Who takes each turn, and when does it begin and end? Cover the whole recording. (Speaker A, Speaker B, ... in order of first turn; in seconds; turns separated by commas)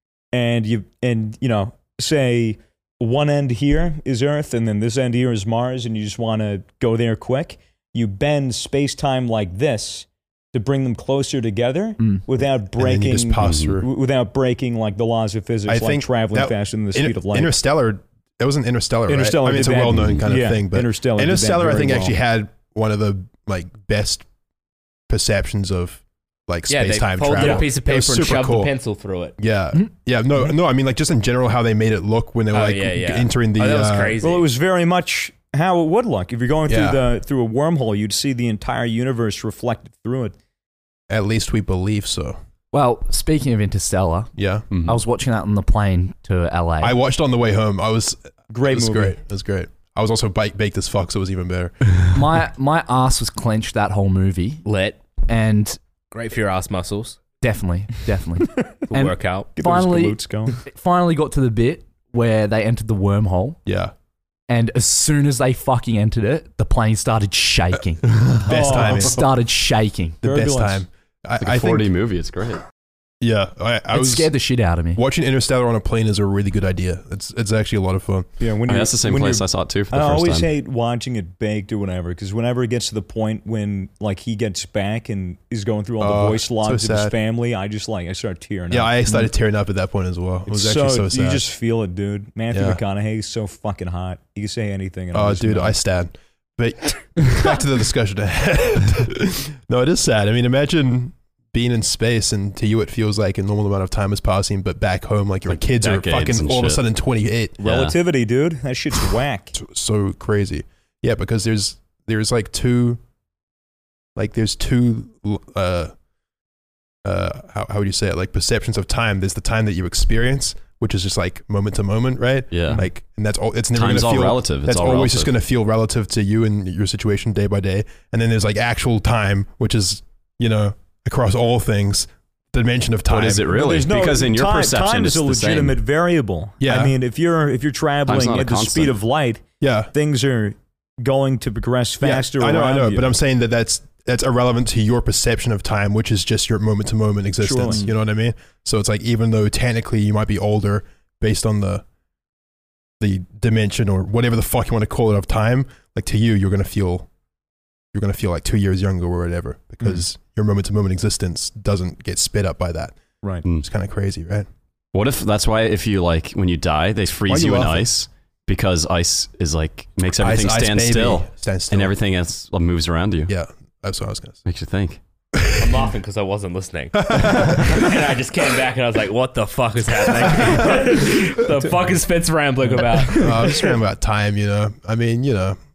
Speaker A: 0.3-17.6, Speaker B: 12.7-13.9, Speaker C: 13.4-13.7, Speaker B: 15.7-24.3, Speaker A: 19.1-22.2, Speaker C: 19.9-20.2, Speaker B: 25.1-28.7, Speaker D: 26.7-29.4, Speaker A: 27.4-27.7, Speaker B: 29.4-34.2, Speaker D: 32.5-34.5, Speaker A: 34.2-40.4, Speaker B: 36.7-37.0, Speaker B: 41.1-42.4, Speaker E: 42.7-44.3, Speaker B: 44.4-44.7, Speaker C: 44.7-45.0, Speaker E: 44.9-47.0, Speaker B: 46.8-51.8, Speaker A: 48.5-49.2, Speaker E: 52.1-54.7, Speaker D: 54.6-55.0, Speaker E: 55.2-55.8, Speaker D: 56.1-57.2, Speaker E: 57.4-63.6, Speaker D: 58.9-59.5, Speaker A: 59.6-60.6, Speaker B: 63.7-63.9, Speaker E: 64.5-70.2, Speaker B: 68.2-69.2, Speaker A: 68.5-69.2, Speaker B: 70.2-71.9, Speaker A: 70.2-70.9, Speaker C: 71.4-72.6, Speaker B: 73.2-74.3, Speaker E: 73.9-75.0, Speaker B: 75.0-78.3, Speaker A: 78.4-89.3, Speaker C: 78.7-80.5, Speaker B: 86.0-87.1, Speaker B: 88.7-91.4, Speaker A: 90.5-95.8, Speaker B: 92.5-92.8, Speaker B: 95.1-107.6, Speaker C: 105.5-106.8, Speaker A: 107.6-109.5, Speaker C: 107.6-108.0, Speaker B: 109.5-113.0, Speaker B: 114.2-115.9, Speaker B: 117.0-133.5, Speaker C: 122.5-122.8, Speaker C: 123.7-125.3, Speaker C: 133.1-135.8, Speaker A: 133.5-143.1, Speaker B: 136.6-136.9, Speaker C: 138.1-139.0, Speaker B: 139.6-139.9, Speaker B: 142.0-151.8, Speaker A: 147.4-147.9, Speaker B: 153.0-157.1, Speaker B: 157.9-164.5, Speaker C: 164.9-173.3, Speaker B: 167.3-167.9, Speaker B: 170.2-171.9, Speaker B: 173.3-174.4, Speaker C: 174.5-175.0, Speaker B: 175.3-175.8, Speaker D: 175.6-183.8, Speaker B: 176.9-178.0, Speaker B: 180.3-181.2, Speaker B: 183.1-185.6